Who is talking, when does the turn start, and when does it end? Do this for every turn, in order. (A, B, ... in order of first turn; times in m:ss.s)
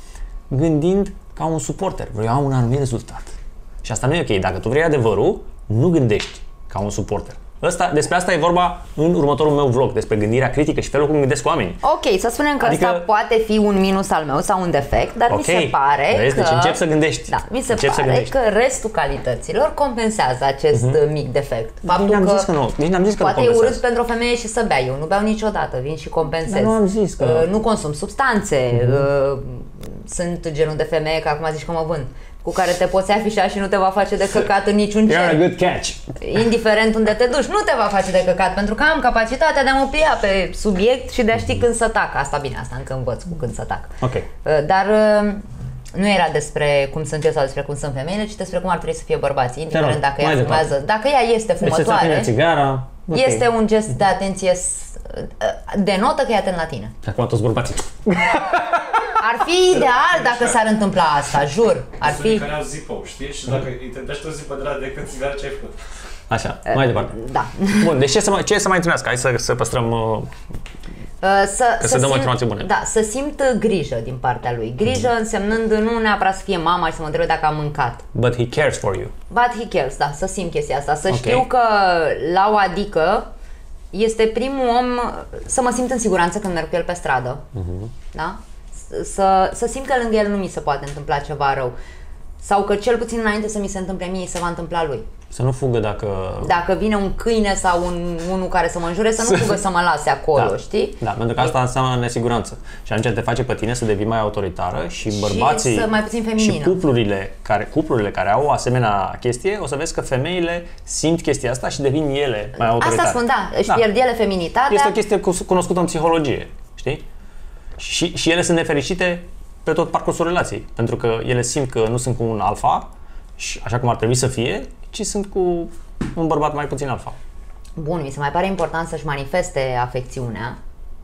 0:00.5-0:11.8 A
0:11.8-0:22.5 B
0:12.6-0:13.0 A
0:15.3-0:18.3 A
0:20.7-0:21.0 A
0:21.8-0:23.8 A
0:23.2-0:35.4 B
0:26.4-0:27.5 A
0:28.7-0:29.0 A
0:35.1-0:36.2 A
0:36.2-0:52.3 B
0:44.0-0:44.3 A
0:49.7-0:50.7 A
0:51.6-0:53.4 A
0:53.1-0:56.9 B
0:57.0-0:59.1 A
0:59.2-1:02.4 B
1:02.0-1:05.8 C
1:06.3-1:07.2 A
1:06.7-1:07.9 B
1:07.7-1:10.3 A
1:11.2-1:18.0 B
1:11.8-1:12.7 A
1:18.1-1:19.1 A
1:19.3-1:23.3 B
1:21.1-1:21.4 A
1:23.9-1:27.4 B
1:27.5-1:27.9 A
1:28.1-1:31.7 B
1:32.4-1:35.1 B
1:35.3-1:36.6 A
1:36.4-1:41.5 B
1:39.2-1:39.6 A
1:40.3-1:53.8 A
1:45.1-1:46.8 B
1:52.6-1:55.0 B
1:54.7-1:57.0 A
1:57.8-2:07.2 A
2:07.8-2:10.6 B